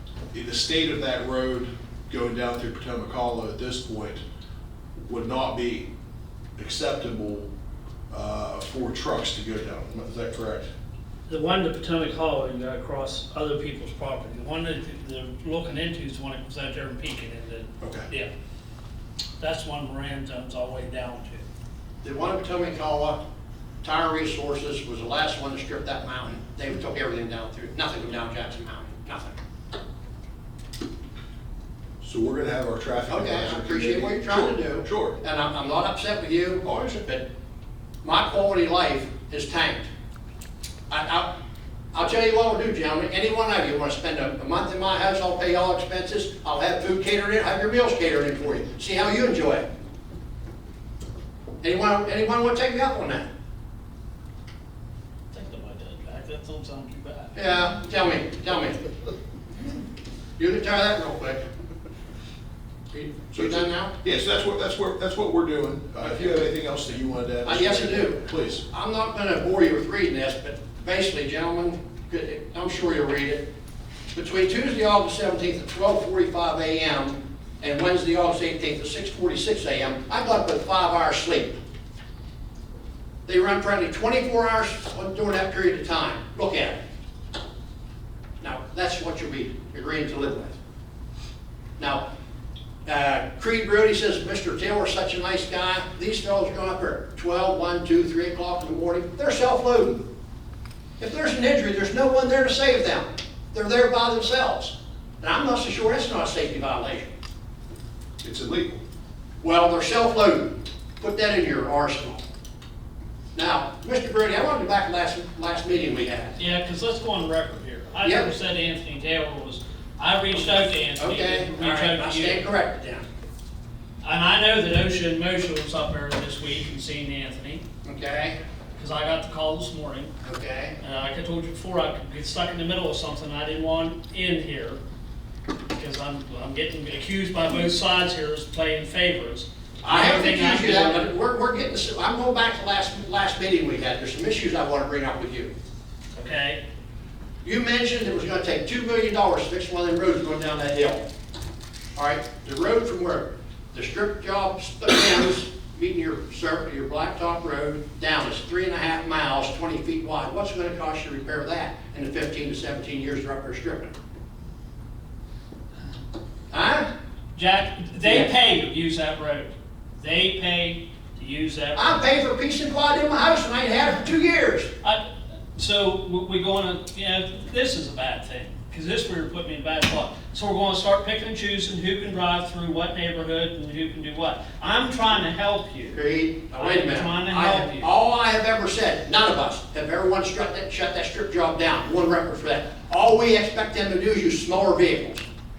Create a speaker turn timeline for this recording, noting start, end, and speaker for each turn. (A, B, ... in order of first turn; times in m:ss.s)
0:00.3-0:04.2 A
0:05.1-0:05.9 A
0:06.6-0:07.5 A
0:08.1-0:10.7 A
0:11.3-0:18.3 B
0:17.8-0:18.1 A
0:19.4-0:21.4 B
0:22.0-0:23.2 C
0:23.8-0:29.4 C
0:32.0-0:35.2 A
0:33.1-0:37.2 C
0:38.0-0:39.9 C
0:40.9-0:41.3 C
0:41.9-0:49.7 C
0:51.6-0:53.3 C
0:55.3-0:57.5 B
0:57.4-0:58.8 C
1:00.4-1:01.4 C
1:02.9-1:04.0 C
1:03.3-1:08.6 A
1:06.0-1:06.3 C
1:07.4-1:13.5 C
1:14.1-1:21.6 C
1:23.3-1:26.8 C
1:28.4-1:30.6 C
1:31.8-1:32.0 C
1:32.9-1:40.0 C
1:41.0-1:47.1 C
1:48.2-1:48.8 A
1:49.4-1:52.2 C
1:53.4-1:56.4 C
1:56.4-2:02.5 B
1:58.0-1:58.3 C
2:00.3-2:03.1 C
2:04.0-2:07.6 B
2:07.8-2:08.4 C
2:08.8-2:10.1 B
2:10.2-2:10.8 C
2:10.8-2:14.8 B
2:15.7-2:21.1 B
2:19.8-2:25.5 C
2:26.2-2:26.6 B
2:27.4-2:31.0 C
2:32.0-2:43.9 C
2:46.5-2:46.9 C
2:47.4-2:52.1 B
2:51.8-2:54.7 C
2:55.6-3:06.0 B
3:05.9-3:15.3 C
3:06.6-3:07.9 B